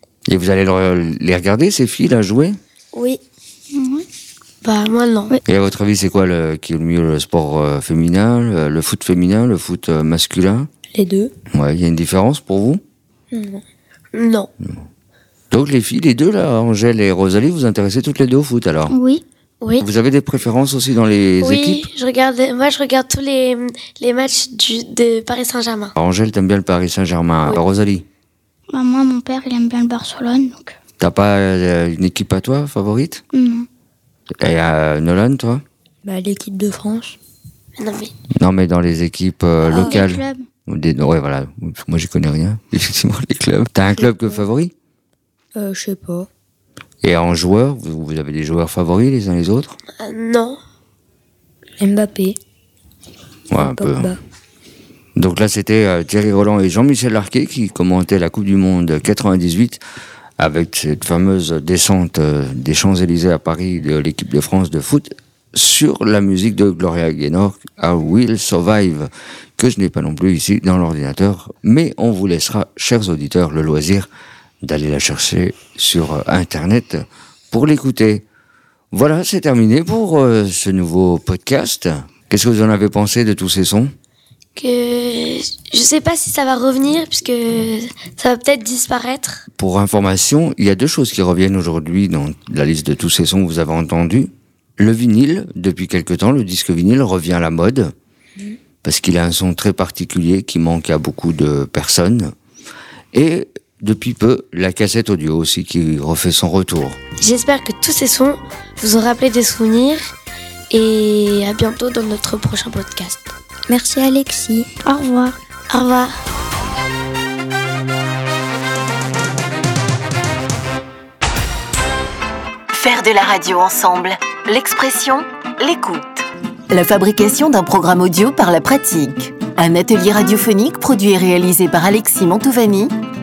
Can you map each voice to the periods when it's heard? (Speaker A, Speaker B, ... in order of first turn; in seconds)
Speaker A: 0.3-2.6, 5.5-10.7, 11.5-12.8, 15.5-18.9, 19.8-21.9, 26.0-28.1, 31.0-33.2, 34.4-35.6, 38.4-44.7, 47.0-49.8, 53.5-54.2, 55.2-59.8, 60.4-74.1, 74.6-78.2, 78.9-83.9, 89.5-97.9, 98.8-102.3, 103.1-107.0
Speaker B: 2.9-3.2, 10.9-11.3, 13.3-13.6, 36.0-37.2, 39.7-40.0, 44.0-44.4, 45.5-46.3, 51.8-52.4, 53.5-54.2, 113.7-114.7
Speaker C: 3.7-4.1, 18.9-19.2, 28.7-30.8, 33.3-33.7, 39.7-40.5, 114.8-115.4
Speaker D: 4.6-5.3, 14.1-14.5, 19.6-19.9, 21.4-25.9, 37.8-38.1, 50.0-50.6, 84.6-89.5, 107.2-110.0, 110.7-113.3, 115.7-116.1
Speaker E: 122.7-132.9